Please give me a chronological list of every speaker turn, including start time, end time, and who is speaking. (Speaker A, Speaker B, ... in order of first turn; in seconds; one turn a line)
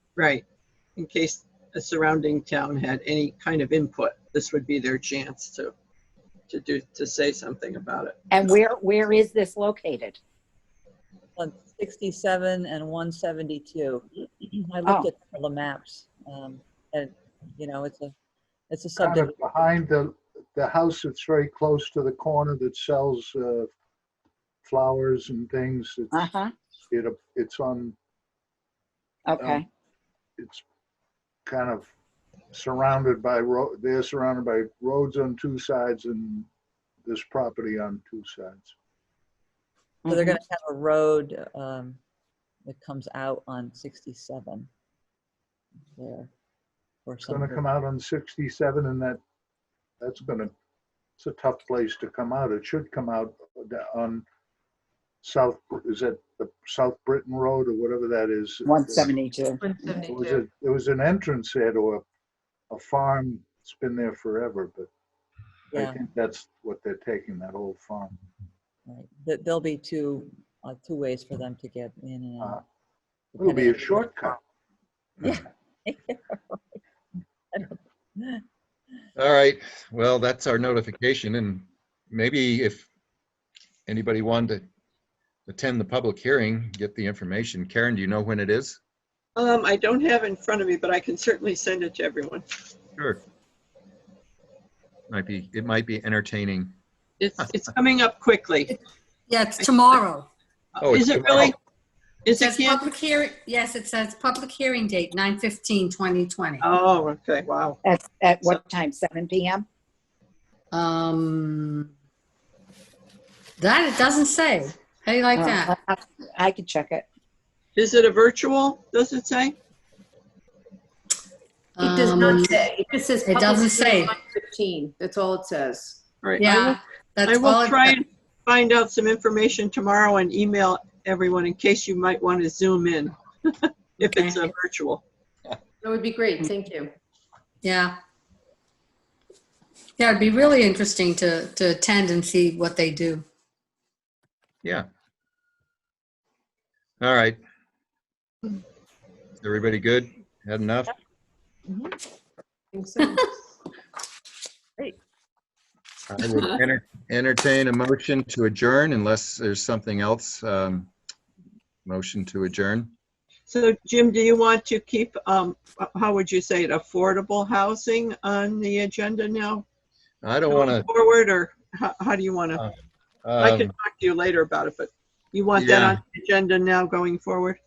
Speaker A: 0.2-0.4
Speaker A: 1.0-5.7
Speaker A: 6.5-8.2
Speaker B: 8.3-10.2
Speaker C: 11.4-18.1
Speaker C: 18.7-19.4
Speaker D: 19.0-23.7
Speaker D: 24.6-26.3
Speaker B: 26.1-26.5
Speaker D: 26.9-28.0
Speaker B: 29.3-29.7
Speaker D: 29.4-29.6
Speaker D: 30.4-30.6
Speaker D: 31.5-31.9
Speaker D: 32.5-36.5
Speaker D: 37.1-38.8
Speaker B: 40.0-40.4
Speaker C: 40.1-42.0
Speaker C: 42.6-44.7
Speaker C: 46.0-46.3
Speaker C: 47.1-47.6
Speaker D: 47.2-49.2
Speaker D: 50.0-50.5
Speaker D: 51.2-54.2
Speaker D: 55.2-59.1
Speaker B: 58.7-60.1
Speaker E: 59.6-60.4
Speaker D: 60.1-62.0
Speaker D: 62.7-64.9
Speaker C: 65.7-66.0
Speaker D: 65.7-68.2
Speaker C: 68.9-72.6
Speaker C: 73.4-74.1
Speaker D: 73.4-74.4
Speaker C: 75.2-76.8
Speaker C: 77.5-78.4
Speaker F: 79.2-82.9
Speaker F: 83.9-84.7
Speaker F: 85.5-88.8
Speaker A: 89.4-92.5
Speaker F: 95.1-96.8
Speaker A: 97.2-98.8
Speaker G: 99.3-100.3
Speaker A: 100.8-101.6
Speaker F: 100.8-101.5
Speaker A: 102.2-102.9
Speaker G: 102.3-106.6
Speaker A: 106.6-107.8
Speaker B: 107.8-109.7
Speaker G: 110.7-111.9
Speaker G: 113.6-115.7
Speaker B: 115.3-117.1
Speaker A: 117.8-119.5
Speaker G: 121.8-122.6
Speaker E: 121.9-126.0
Speaker G: 123.2-124.2
Speaker A: 126.2-135.0
Speaker G: 126.4-128.0
Speaker G: 134.0-134.3
Speaker E: 135.8-136.9
Speaker G: 137.6-137.9
Speaker G: 140.0-143.2
Speaker F: 147.0-147.4
Speaker F: 149.4-150.9
Speaker E: 152.7-153.5
Speaker F: 156.1-160.9
Speaker F: 161.9-162.9
Speaker A: 163.5-169.7
Speaker F: 170.2-170.9
Speaker A: 170.5-172.6
Speaker F: 172.6-173.7
Speaker A: 173.4-177.6
Speaker F: 175.5-176.0